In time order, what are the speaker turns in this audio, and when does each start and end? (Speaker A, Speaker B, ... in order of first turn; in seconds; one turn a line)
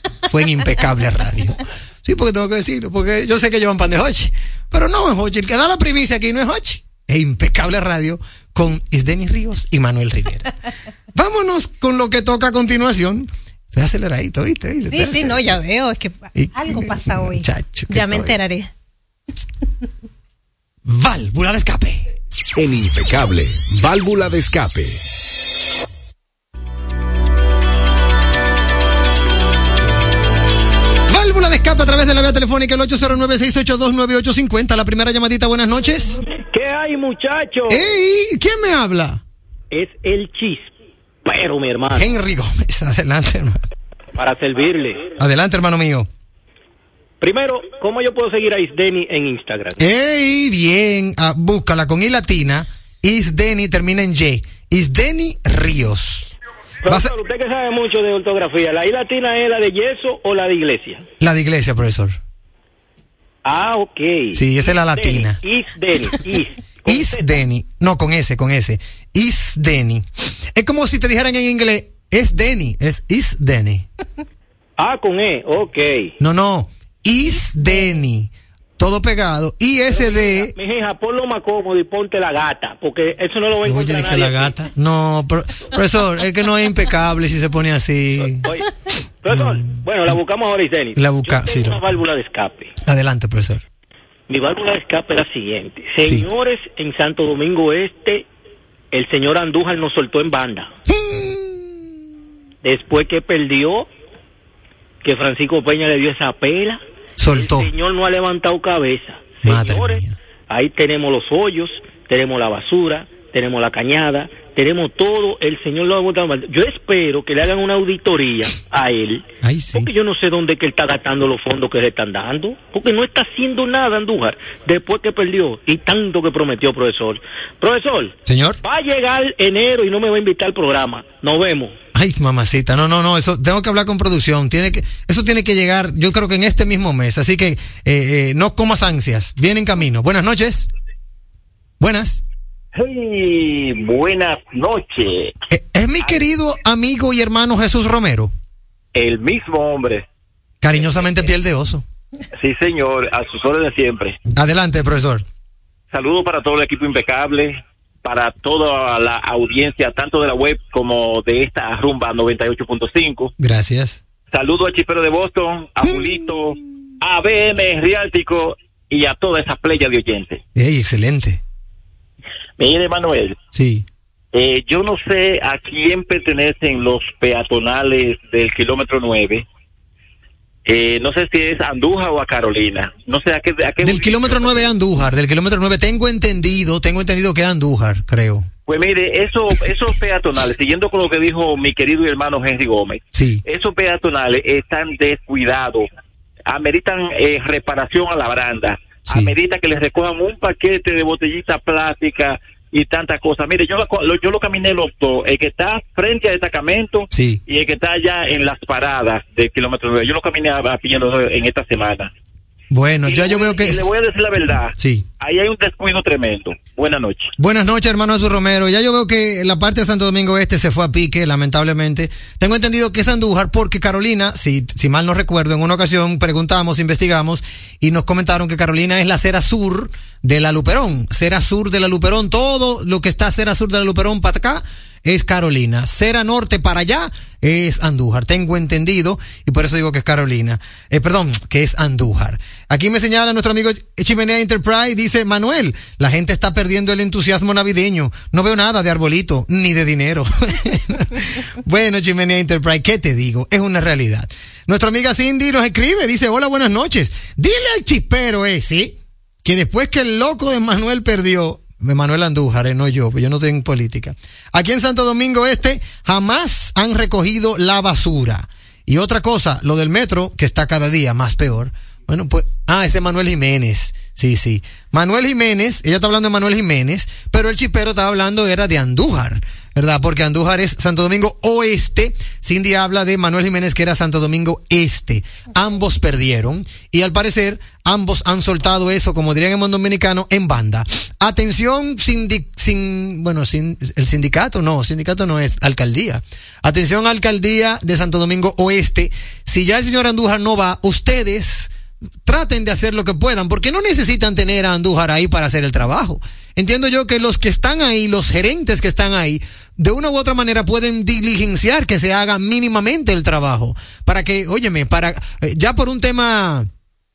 Speaker A: 0.3-10.5
Speaker A: 11.2-15.4
Speaker B: 14.9-18.7
Speaker A: 16.4-18.4
Speaker A: 20.9-22.1
Speaker C: 22.6-25.0
Speaker A: 31.1-36.2
Speaker D: 36.4-37.9
Speaker A: 37.7-39.2
Speaker D: 39.7-40.7
Speaker D: 41.2-42.1
Speaker A: 41.9-43.6
Speaker D: 44.1-45.0
Speaker A: 45.2-46.1
Speaker D: 47.2-49.9
Speaker A: 49.8-56.3
Speaker D: 56.8-61.1
Speaker A: 56.9-57.1
Speaker A: 61.2-62.2
Speaker D: 63.5-67.4
Speaker A: 64.3-65.4
Speaker A: 66.9-73.9
Speaker D: 74.8-76.1
Speaker A: 76.2-80.5
Speaker D: 79.9-84.6
Speaker A: 83.6-88.5
Speaker D: 88.2-88.7
Speaker D: 89.2-92.7
Speaker A: 89.3-90.1
Speaker A: 91.0-92.0
Speaker A: 92.8-93.6
Speaker D: 94.3-98.2
Speaker A: 96.0-96.3
Speaker D: 98.9-100.7
Speaker A: 100.9-101.8
Speaker D: 102.6-103.9
Speaker D: 105.0-131.8
Speaker A: 107.2-107.7
Speaker A: 109.4-110.2
Speaker A: 119.4-119.9
Speaker A: 128.3-128.6
Speaker A: 131.9-140.7
Speaker A: 141.8-142.2
Speaker E: 142.8-145.3
Speaker A: 145.5-148.3
Speaker E: 148.9-150.1
Speaker A: 150.6-151.8
Speaker E: 152.4-154.2
Speaker A: 154.3-155.2
Speaker E: 155.9-163.3
Speaker A: 163.4-164.0
Speaker E: 164.3-170.4
Speaker A: 165.8-166.3
Speaker A: 170.6-171.4
Speaker E: 172.6-173.4
Speaker A: 173.5-173.9
Speaker E: 174.3-179.4
Speaker E: 180.7-184.7
Speaker A: 183.8-188.5
Speaker E: 188.7-195.9
Speaker A: 193.1-193.4
Speaker E: 196.5-212.1
Speaker A: 207.1-207.4
Speaker A: 212.7-213.9
Speaker E: 213.1-217.3
Speaker A: 214.8-215.1
Speaker A: 217.4-301.7
Speaker A: 302.2-316.7